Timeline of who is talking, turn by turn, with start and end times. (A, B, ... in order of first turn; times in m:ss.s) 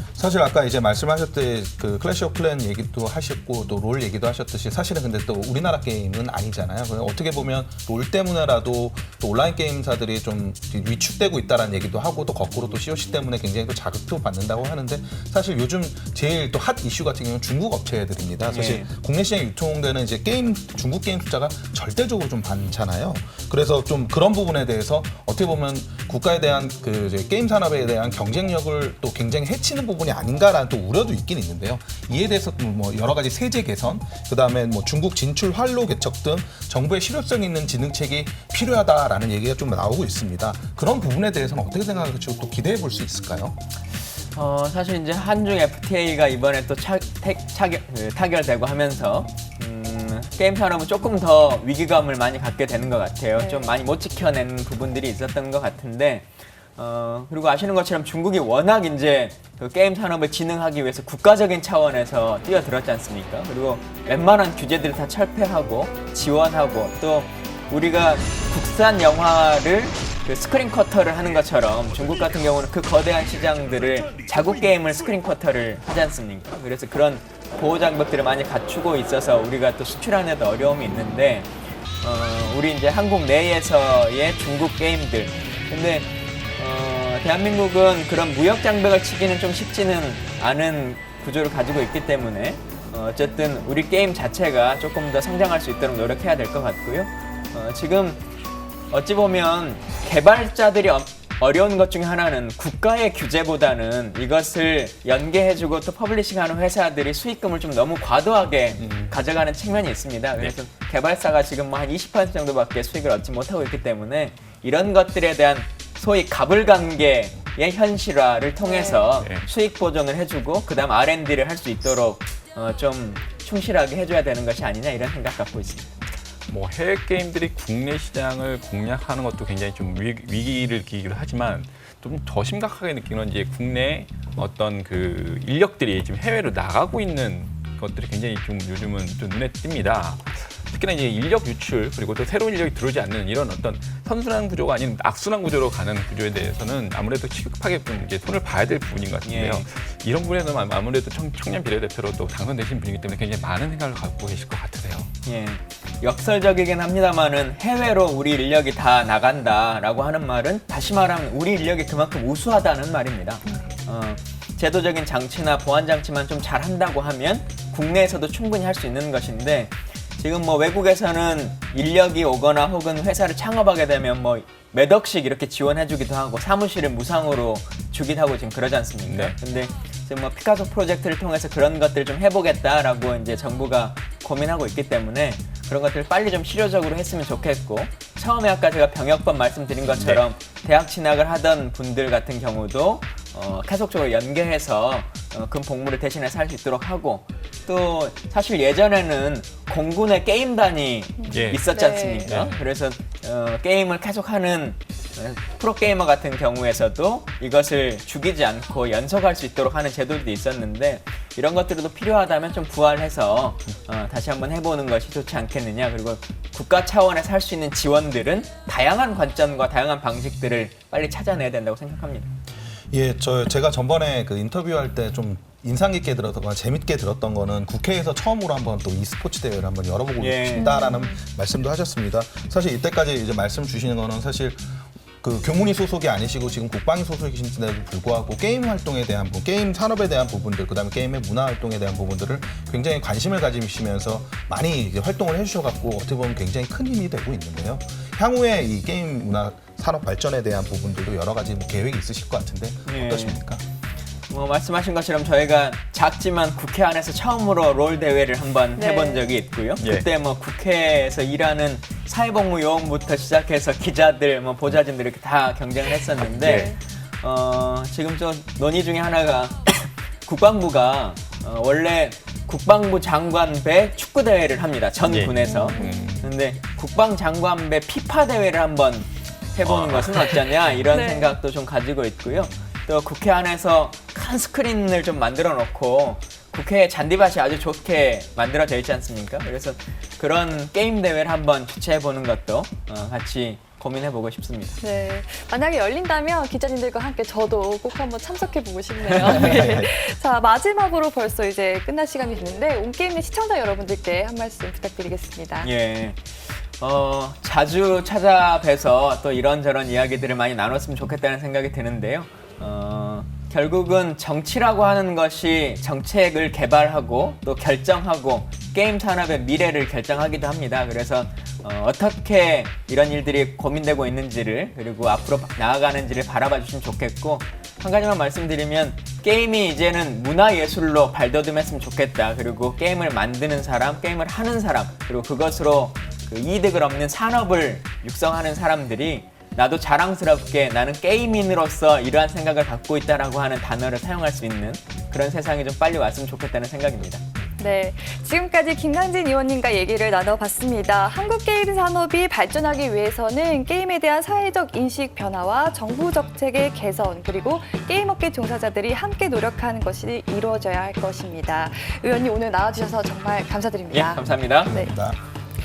0:00.2-0:43.6 A
0:18.5-0:18.9 B
0:44.3-1:38.2 B
0:53.4-0:53.7 C
1:38.9-2:05.9 B
1:48.8-1:49.2 D
1:58.6-1:59.1 C
1:59.2-1:59.5 D
2:06.5-2:35.1 D
2:29.2-2:29.7 B
2:35.2-3:42.3 B
2:43.5-2:43.7 C
2:59.0-2:59.4 D
3:09.8-3:10.2 D
3:21.2-3:22.4 C
3:21.3-3:21.6 D
3:22.2-3:22.6 D
3:42.9-3:54.6 A
3:50.2-3:50.7 B
3:50.5-3:51.2 C
3:55.2-4:13.6 A
4:12.9-4:13.4 B
4:14.3-4:54.8 B
4:18.8-4:19.2 C
4:19.8-4:20.0 D
4:26.2-4:26.7 D
4:26.5-4:26.8 C
4:35.1-4:36.2 D
4:35.4-4:36.2 C
4:39.6-4:40.8 D
4:40.9-4:41.3 C
4:54.8-5:05.7 C
4:59.1-4:59.6 B
4:59.4-4:59.8 A
5:05.6-5:47.2 B
5:47.6-6:04.9 C
6:03.9-6:04.7 B
6:04.7-6:05.2 A